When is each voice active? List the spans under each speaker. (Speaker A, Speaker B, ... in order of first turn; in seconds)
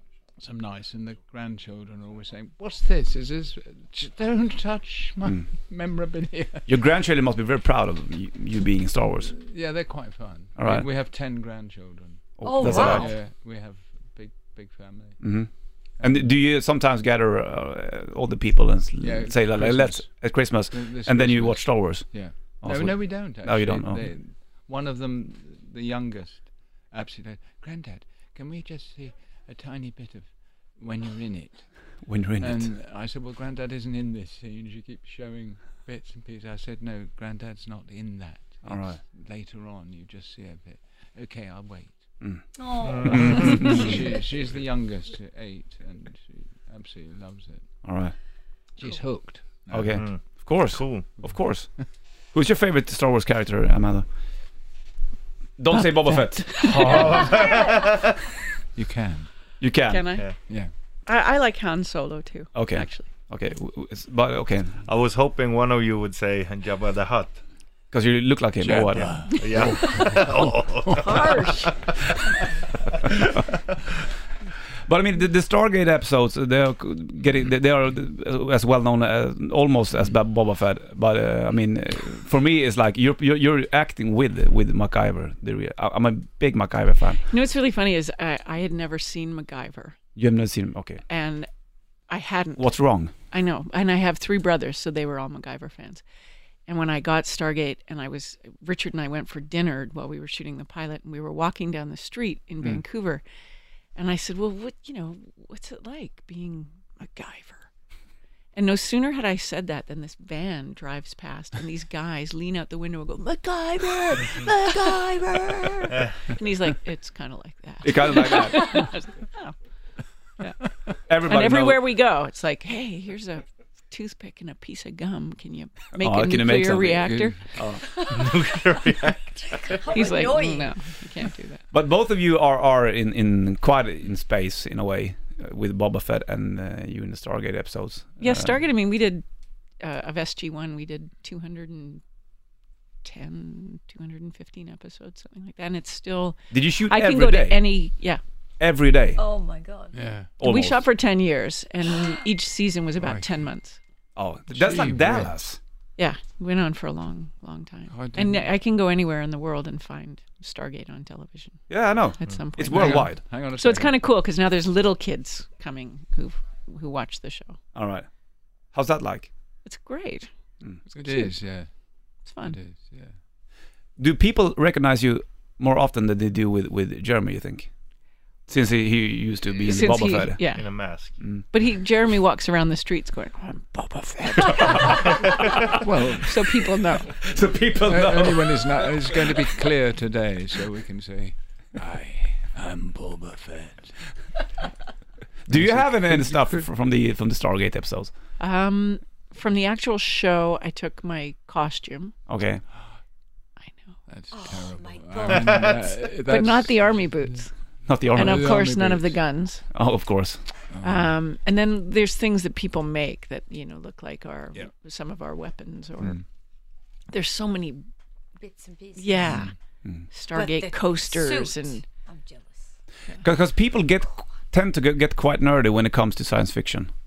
Speaker A: 0.4-6.7, 9.3-15.4, 16.0-16.3, 19.0-42.2, 43.4-47.8, 48.8-50.1, 51.2-51.8, 58.7-59.3, 60.4-60.7, 68.6-71.0, 127.0-127.3, 149.9-150.3, 153.0-153.3, 154.5-155.4, 157.9-158.5, 162.7-163.9, 170.9-173.2, 185.8-187.0, 187.8-194.2, 195.5-196.6, 204.1-207.4, 207.9-209.2, 210.7-211.1, 219.2-219.5
Speaker B: 6.7-9.3, 10.6-10.9, 12.4-13.1, 15.2-24.1, 32.0-32.7, 38.6-39.0, 42.2-43.9, 47.8-48.1, 49.7-54.1, 55.6-57.3, 59.6-60.1, 62.5-64.8, 67.9-70.2, 74.8-87.2, 90.2-91.0, 92.5-93.1, 117.8-118.8, 121.1-121.9, 126.0-127.8, 131.7-138.6, 146.5-147.6, 148.6-149.2, 150.4-150.8, 154.2-155.6, 161.7-163.2, 167.7-168.1, 168.6-169.3, 174.0-177.7, 178.5-181.4, 184.6-184.8, 187.2-189.1, 195.5-198.1, 202.3-202.6, 207.8-208.6, 209.7-210.4, 223.2-226.9
Speaker C: 12.4-13.1, 42.5-43.7, 127.8-128.3, 129.5-130.9, 149.2-149.9, 204.3-206.0, 218.4-219.3, 220.3-222.7
Speaker D: 12.6-13.1, 42.8-43.8, 50.0-51.1, 56.8-58.0, 64.8-67.4, 68.9-71.9, 128.1-129.8, 180.5-181.2, 205.3-205.7
Speaker E: 56.2-56.9, 59.8-60.3, 61.0-63.1, 71.0-71.8, 87.3-90.0, 91.1-91.5, 92.1-96.0, 96.7-103.2, 103.9-107.7, 108.5-119.5, 121.2-127.5, 129.9-131.6, 138.2-139.2, 139.8-142.0, 143.0-148.2, 150.4-153.8, 156.0-167.6, 169.6-170.3, 171.0-171.4, 172.2-172.6, 179.6-180.8, 181.5-185.5, 186.1-187.1, 198.4-202.2, 203.6-204.0, 206.2-207.6, 208.1-209.7, 210.8-216.2, 217.1-217.8, 218.9-219.5, 220.1-221.8